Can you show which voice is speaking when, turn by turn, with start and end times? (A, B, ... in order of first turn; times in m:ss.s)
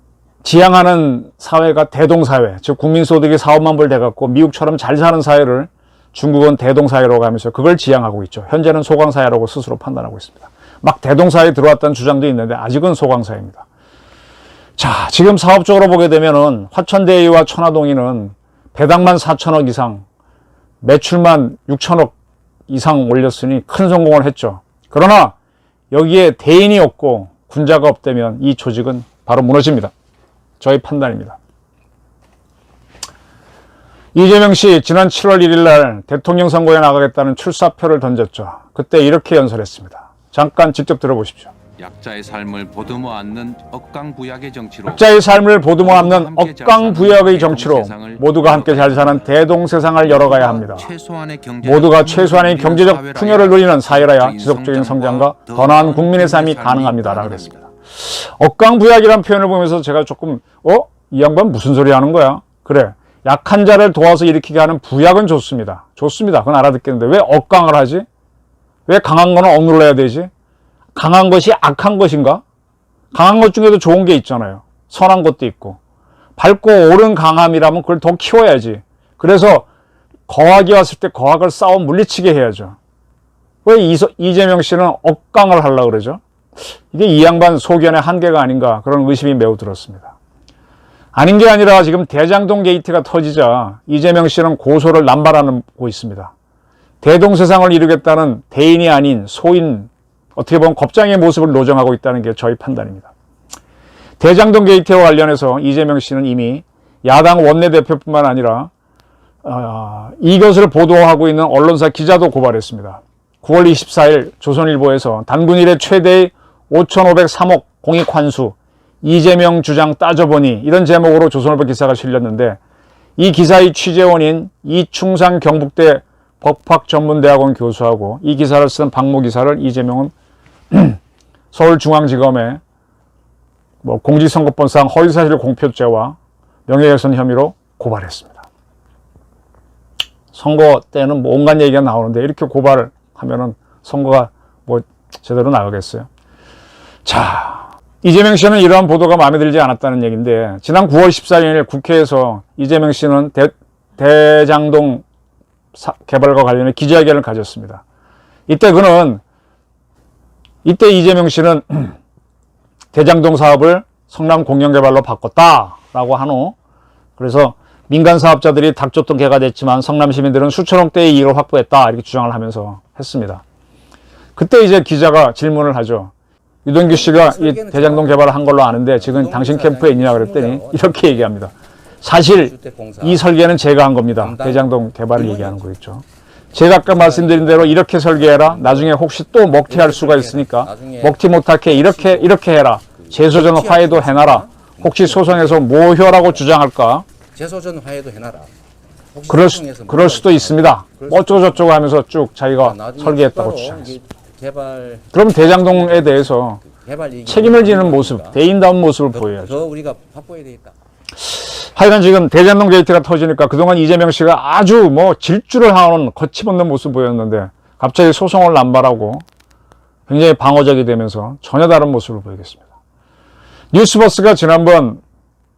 0:00.4-0:13.6 A
0:14.8-0:20.0 A
0:20.8-0:22.1 A
0:22.7-0:25.3 A
0:25.9-0:29.9 A
0:30.6-0:31.4 A
0:34.1-0:41.5 A
0:41.8-0:49.2 B
0:44.8-0:50.9 A
0:50.0-0:57.6 B
0:51.6-1:08.0 A
1:08.9-1:10.3 A
1:10.9-1:12.4 A
1:13.1-1:15.8 A
1:16.4-1:19.7 A
1:20.3-1:22.8 A
1:23.6-1:26.2 A
1:26.9-1:30.1 A
1:31.1-1:36.3 A
1:37.0-1:43.1 A
1:44.2-1:48.7 A
1:49.4-2:02.6 A
2:03.2-2:10.1 A
2:10.7-2:11.0 A
2:11.5-2:12.6 A
2:13.8-2:18.4 A
2:20.3-2:26.1 A
2:27.0-2:35.0 A
2:35.7-2:37.8 A
2:38.5-2:39.2 A
2:40.6-2:42.0 A
2:42.9-2:46.6 A
2:47.2-2:53.4 A
2:54.4-2:56.1 A
2:56.6-3:17.0 A
2:56.8-2:58.4 C
2:59.0-3:01.4 C
3:02.2-3:03.3 C
3:04.2-3:05.6 C
3:06.7-3:09.0 C
3:09.7-3:12.4 C
3:13.0-3:16.5 C
3:17.3-3:18.5 C
3:19.1-3:21.7 C
3:19.3-3:23.9 A
3:22.6-3:28.4 C
3:25.1-3:26.6 A
3:27.2-3:29.6 A
3:29.1-3:30.8 C
3:31.3-3:39.2 A
3:40.1-3:42.6 A
3:43.7-3:45.0 A